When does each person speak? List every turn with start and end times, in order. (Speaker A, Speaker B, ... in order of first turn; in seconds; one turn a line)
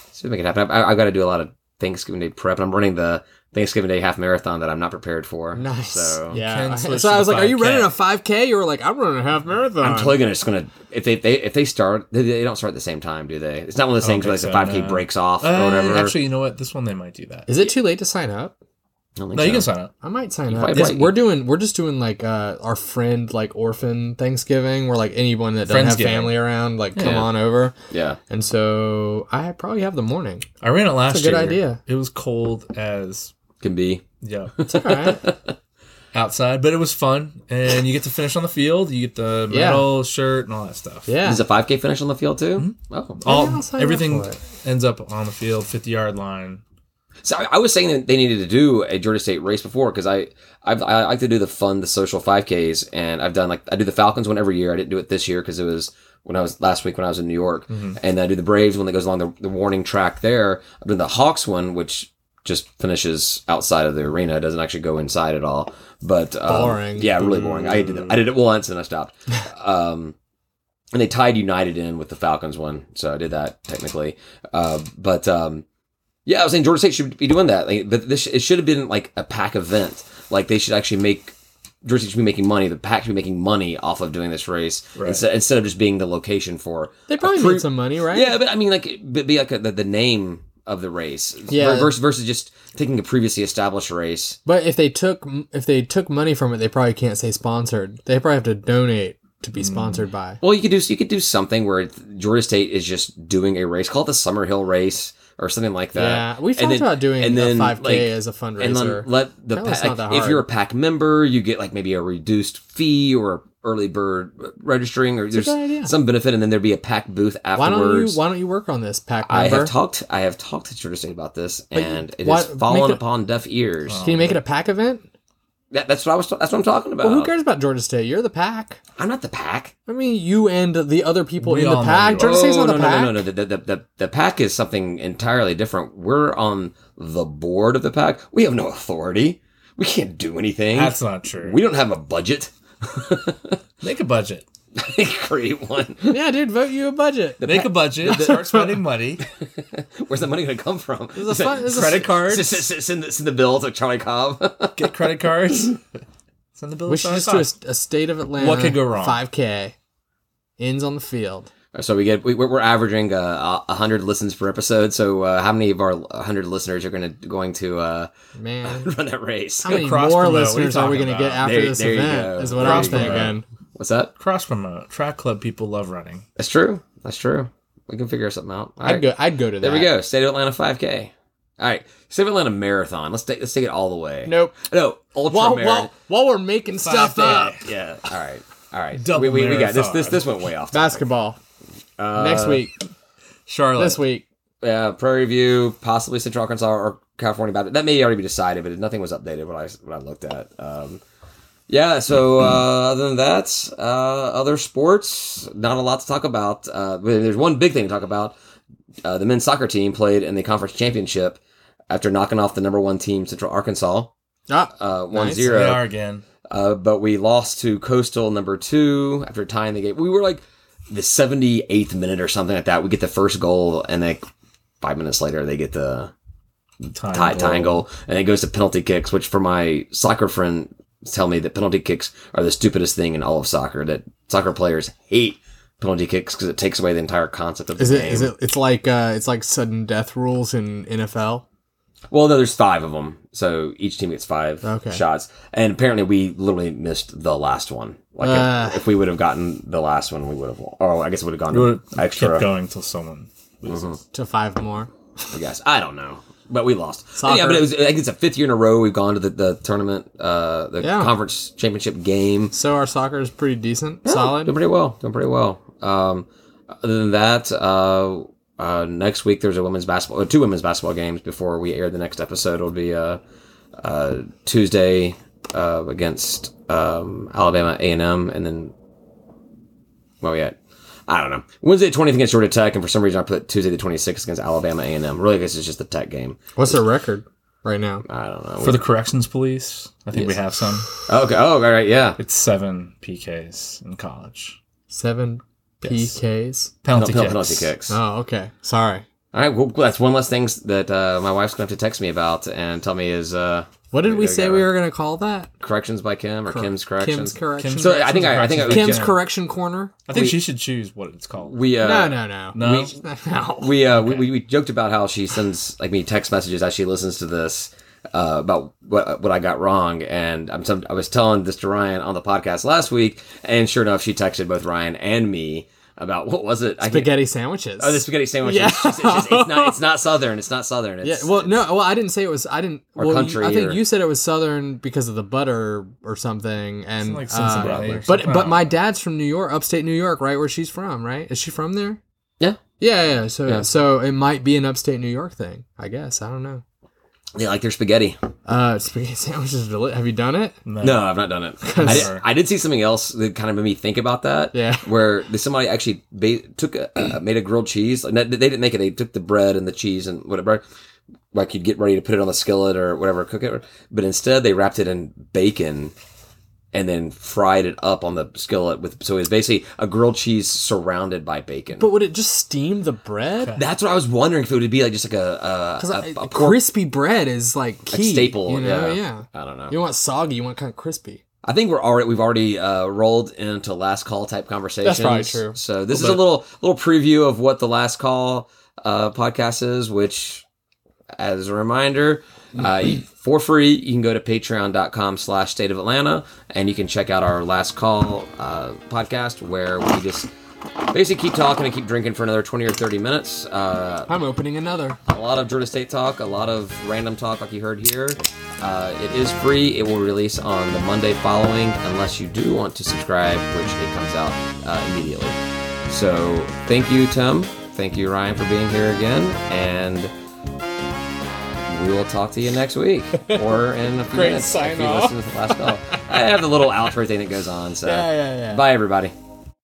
Speaker A: 0.1-6.4
Speaker B: 5.5-10.2
Speaker C: 6.3-8.0
Speaker A: 9.8-16.2
Speaker C: 14.0-17.5
Speaker B: 17.5-18.5
Speaker A: 19.2-19.7
Speaker C: 19.3-19.9
Speaker B: 20.0-27.7
Speaker A: 20.5-21.2
Speaker C: 25.7-26.4
Speaker C: 26.9-27.2
Speaker A: 27.0-27.3
Speaker A: 27.9-28.2
Speaker B: 28.3-30.4
Speaker C: 30.6-33.3
Speaker B: 31.1-31.8
Speaker A: 33.6-34.0
Speaker C: 34.2-34.5
Speaker A: 34.6-35.5
Speaker B: 34.7-35.2
Speaker C: 36.1-41.1
Speaker B: 39.5-39.9
Speaker B: 41.1-41.4
Speaker A: 41.2-43.2
Speaker C: 42.6-46.6
Speaker B: 43.2-44.4
Speaker A: 47.2-70.1
Speaker C: 57.7-58.0
Speaker B: 66.5-67.3
Speaker C: 67.2-68.2
Speaker A: 70.9-75.6
Speaker A: 76.3-94.4
Speaker B: 87.1-88.3
Speaker B: 91.5-91.9
Speaker B: 94.5-100.4
Speaker C: 99.6-100.0
Speaker A: 100.4-118.2
Speaker B: 106.0-110.4
Speaker B: 115.3-115.9
Speaker B: 117.5-119.7
Speaker A: 119.2-124.0
Speaker B: 121.7-123.0
Speaker C: 123.9-124.4
Speaker B: 124.0-125.0
Speaker A: 125.7-127.3
Speaker B: 127.0-128.8
Speaker A: 128.9-129.7
Speaker B: 129.9-133.2
Speaker C: 131.4-132.4
Speaker A: 132.2-143.6
Speaker C: 140.7-141.6
Speaker C: 143.8-144.4
Speaker A: 144.7-146.2
Speaker B: 146.1-148.7
Speaker A: 147.4-148.4
Speaker C: 147.4-149.2
Speaker A: 149.2-155.0
Speaker B: 151.2-152.2
Speaker C: 151.7-152.6
Speaker C: 154.8-155.8
Speaker C: 156.6-157.5
Speaker B: 156.9-159.7
Speaker C: 158.4-159.2
Speaker B: 160.6-161.5
Speaker A: 161.7-168.1
Speaker B: 168.4-168.9
Speaker A: 168.6-169.8
Speaker B: 169.6-173.4
Speaker C: 169.7-171.4
Speaker A: 171.4-174.1
Speaker C: 172.6-173.4
Speaker C: 174.2-176.2
Speaker A: 176.4-185.9
Speaker B: 178.8-179.9
Speaker B: 184.3-184.6
Speaker B: 185.2-187.6
Speaker C: 186.8-187.7
Speaker A: 187.2-191.0
Speaker C: 189.0-190.3
Speaker B: 190.7-191.4
Speaker A: 192.0-192.7
Speaker B: 192.1-192.7
Speaker C: 193.5-194.0
Speaker B: 193.7-194.2
Speaker A: 194.6-201.0
Speaker A: 201.7-208.3
Speaker A: 209.0-211.4
Speaker A: 211.9-214.1
Speaker B: 214.5-215.5
Speaker A: 214.8-215.9
Speaker C: 215.5-216.2
Speaker A: 216.5-224.2
Speaker A: 224.8-226.1
Speaker C: 226.9-227.8
Speaker A: 227.1-238.3
Speaker B: 237.8-241.4
Speaker A: 242.1-252.5
Speaker B: 244.6-245.0
Speaker B: 248.2-248.8
Speaker C: 251.5-253.9
Speaker A: 253.7-254.0
Speaker B: 254.1-255.3
Speaker A: 255.3-262.5
Speaker B: 257.2-257.7
Speaker B: 260.8-261.1
Speaker B: 262.5-264.6
Speaker A: 264.1-273.2
Speaker A: 273.8-278.7
Speaker A: 280.2-280.6
Speaker A: 281.1-286.8
Speaker B: 286.6-288.0
Speaker A: 288.1-288.8
Speaker C: 288.6-290.9
Speaker A: 291.0-292.2
Speaker C: 292.2-294.6
Speaker B: 294.9-296.7
Speaker C: 295.8-296.1
Speaker C: 296.8-297.7
Speaker A: 296.9-298.0
Speaker B: 297.9-299.1
Speaker A: 299.3-304.7
Speaker B: 303.9-305.5
Speaker A: 305.6-309.2
Speaker B: 306.5-310.0
Speaker C: 307.6-309.2
Speaker C: 310.1-311.6
Speaker A: 310.1-310.4
Speaker A: 311.4-312.9
Speaker B: 311.8-314.2
Speaker C: 312.6-312.9
Speaker A: 313.6-327.1
Speaker B: 326.8-329.8
Speaker A: 327.8-331.6
Speaker B: 331.0-342.0
Speaker A: 333.0-333.8
Speaker C: 337.0-338.7
Speaker A: 337.6-338.0
Speaker B: 342.8-346.6
Speaker A: 347.4-348.2
Speaker B: 348.5-350.6
Speaker C: 350.6-351.1
Speaker A: 350.8-360.6
Speaker B: 351.6-352.1
Speaker C: 351.7-352.2
Speaker B: 354.5-354.8
Speaker A: 361.3-365.9
Speaker A: 366.7-371.9
Speaker B: 371.8-373.6
Speaker A: 373.6-376.6
Speaker B: 375.8-381.2
Speaker A: 377.9-379.7
Speaker A: 381.4-390.4
Speaker B: 384.8-385.6
Speaker C: 385.9-386.2
Speaker A: 391.2-400.3
Speaker A: 400.9-404.1
Speaker B: 404.1-405.0
Speaker A: 405.1-420.1
Speaker A: 421.7-429.1
Speaker B: 424.1-425.9
Speaker B: 427.8-428.6